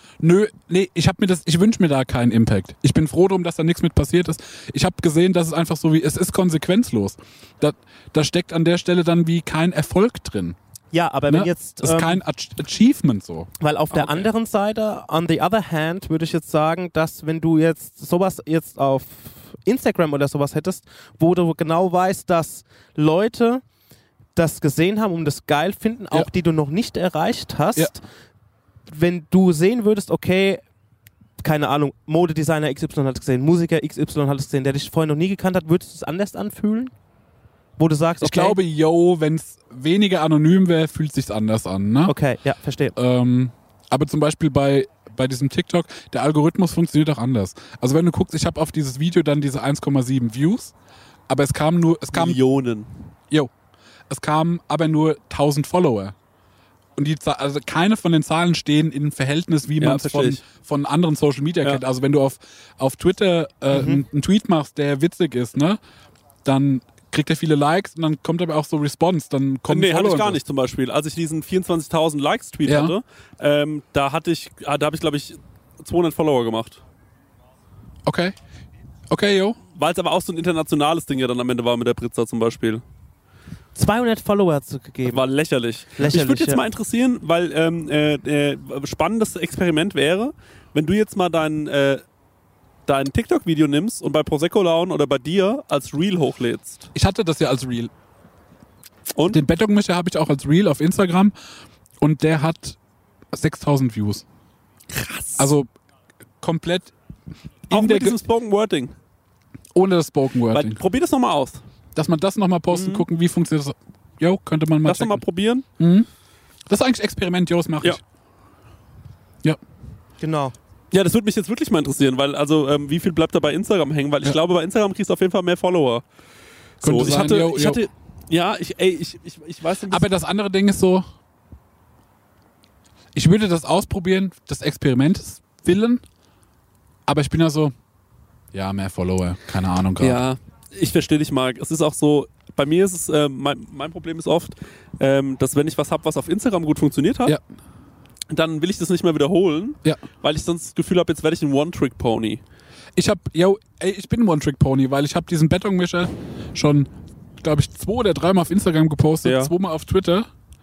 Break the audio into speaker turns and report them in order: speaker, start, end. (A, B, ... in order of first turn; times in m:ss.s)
0:00.2-0:10.6 A
0:10.9-0:12.2 B
0:11.3-0:13.5 A
0:13.6-0:23.6 B
0:24.4-0:28.0 B
0:28.9-0:30.6 B
0:31.4-0:36.9 B
0:37.8-0:38.6 B
0:38.2-0:42.1 A
0:42.0-0:42.9 B
0:43.0-0:50.7 A
0:51.3-0:52.4 A
0:52.1-0:52.9 C
0:54.1-0:56.1 A
0:57.0-1:05.8 A
0:59.8-1:00.4 C
1:03.7-1:04.0 B
1:06.4-1:10.4 A
1:09.7-1:16.8 C
1:12.6-1:13.0 A
1:18.0-1:18.4 A
1:19.1-1:19.6 A
1:19.8-1:22.8 C
1:23.7-1:25.2 B
1:25.1-1:32.0 C
1:26.0-1:26.6 B
1:32.9-1:36.9 C
1:36.9-1:37.9 A
1:39.3-1:41.3 A
1:42.0-1:42.8 A
1:43.3-1:44.2 A
1:44.9-1:45.5 C
1:45.4-1:45.7 A
1:46.4-1:46.9 A
1:47.7-1:48.2 A
1:47.7-1:48.9 C
1:49.7-1:50.8 A
1:50.5-1:51.6 C
1:52.0-1:55.2 A
1:52.7-1:53.0 C
1:54.8-1:55.6 C
1:55.8-1:56.1 A
1:56.7-1:58.0 A
2:00.2-2:00.5 B
2:00.9-2:06.0 C
2:06.8-2:07.8 A
2:06.8-2:10.0 C
2:09.9-2:11.0 A
2:13.1-2:16.0 A
2:17.1-2:17.7 A
2:18.5-2:20.2 A
2:20.0-2:27.4 C
2:28.3-2:32.4 C
2:33.0-2:40.3 A
2:39.2-2:39.5 C